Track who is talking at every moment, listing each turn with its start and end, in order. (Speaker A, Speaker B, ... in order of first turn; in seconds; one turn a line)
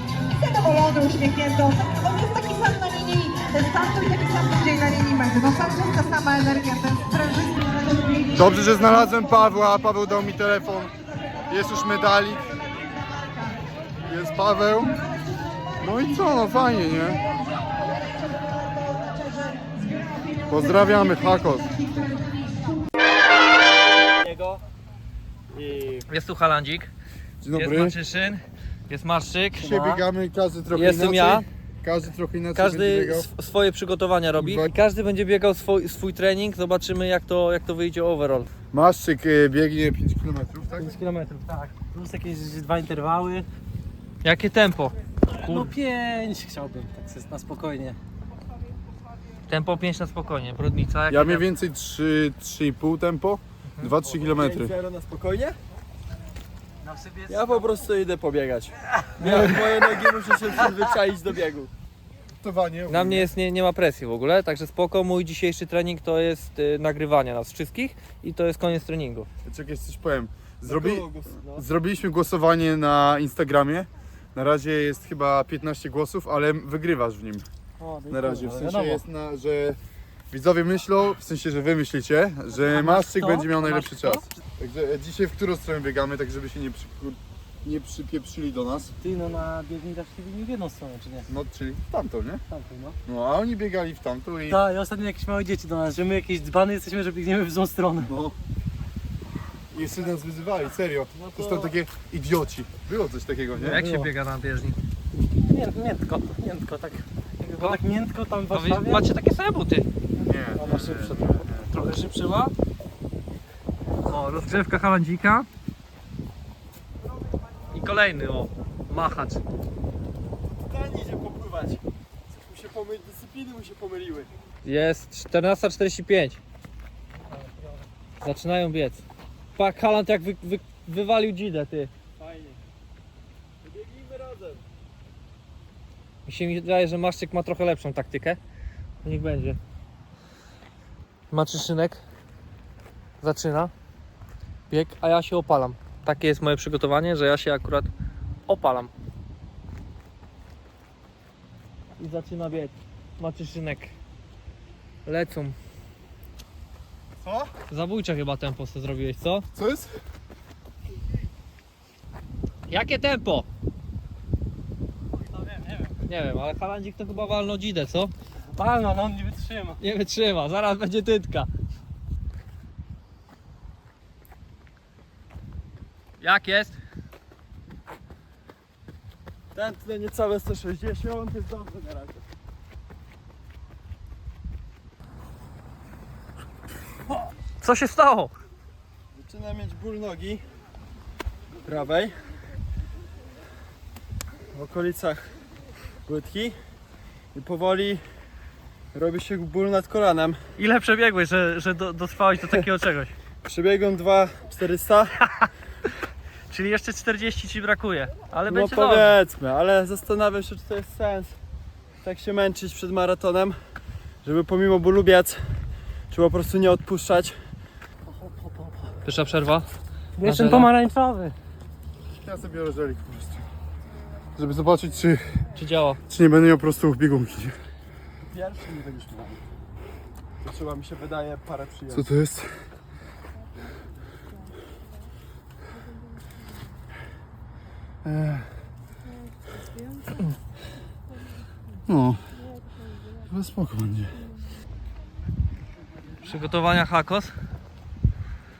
Speaker A: 0.4-8.8
Speaker B: 8.3-10.9
Speaker B: 11.5-12.4
Speaker B: 14.1-14.9
Speaker B: 15.8-17.2
Speaker A: 19.8-20.2
Speaker B: 20.5-21.7
Speaker A: 21.9-22.5
Speaker C: 24.2-24.6
Speaker C: 25.5-26.1
Speaker D: 26.1-26.9
Speaker B: 27.4-27.9
Speaker D: 27.5-29.7
Speaker B: 29.6-33.3
Speaker E: 29.6-30.0
Speaker D: 30.7-31.4
Speaker D: 32.5-38.5
Speaker B: 34.4-34.7
Speaker B: 38.7-40.9
Speaker E: 40.7-43.5
Speaker D: 44.2-45.7
Speaker E: 45.3-48.0
Speaker D: 49.5-51.5
Speaker B: 51.1-54.7
Speaker C: 54.1-55.5
Speaker E: 56.8-57.8
Speaker C: 57.3-61.7
Speaker B: 62.4-63.3
Speaker D: 62.9-69.3
Speaker B: 69.4-77.5
Speaker C: 70.7-71.6
Speaker E: 77.8-79.0
Speaker B: 78.1-79.8
Speaker B: 80.3-88.9
Speaker D: 82.7-84.2
Speaker E: 89.0-91.3
Speaker B: 91.3-92.4
Speaker E: 92.5-93.0
Speaker B: 93.0-94.6
Speaker E: 94.5-98.2
Speaker B: 98.0-98.3
Speaker B: 99.7-103.8
Speaker E: 101.1-101.7
Speaker E: 103.6-104.1
Speaker D: 103.6-104.8
Speaker E: 105.5-109.0
Speaker D: 107.4-107.8
Speaker D: 108.5-109.8
Speaker B: 110.3-111.7
Speaker E: 110.6-111.4
Speaker D: 111.7-112.5
Speaker D: 114.1-115.5
Speaker D: 117.7-119.4
Speaker C: 120.5-124.3
Speaker D: 124.6-126.4
Speaker E: 127.3-127.8
Speaker D: 128.2-129.0
Speaker D: 129.6-131.9
Speaker C: 132.2-132.6
Speaker C: 133.6-134.6
Speaker D: 136.2-138.4
Speaker D: 139.0-139.6
Speaker D: 141.3-142.0
Speaker D: 143.2-143.7
Speaker D: 144.7-147.9
Speaker D: 148.5-148.9
Speaker D: 152.0-153.9
Speaker D: 155.1-155.5
Speaker D: 157.7-159.4
Speaker B: 159.6-159.9
Speaker D: 162.7-163.5
Speaker E: 165.1-165.9
Speaker D: 166.1-168.1
Speaker E: 168.6-169.8
Speaker D: 169.8-171.5
Speaker D: 176.2-176.7
Speaker C: 179.5-182.2
Speaker D: 187.6-188.3
Speaker C: 189.1-190.4
Speaker C: 191.6-192.1
Speaker C: 194.5-195.3
Speaker C: 196.1-196.6
Speaker C: 197.3-198.0
Speaker C: 198.9-200.4
Speaker D: 200.6-203.1
Speaker C: 203.4-205.1
Speaker D: 206.5-209.1
Speaker C: 208.5-211.3
Speaker C: 212.0-213.6
Speaker C: 214.2-215.4
Speaker C: 216.1-217.4
Speaker E: 218.1-218.9
Speaker D: 219.0-219.7
Speaker E: 220.2-221.3
Speaker D: 220.2-220.7
Speaker B: 222.2-223.4
Speaker B: 224.3-225.2
Speaker D: 225.6-226.0
Speaker B: 226.1-227.6
Speaker C: 228.3-229.4
Speaker C: 230.4-232.1
Speaker B: 231.9-232.5
Speaker B: 238.0-238.4
Speaker B: 241.8-242.2
Speaker B: 243.3-244.1
Speaker D: 246.2-247.3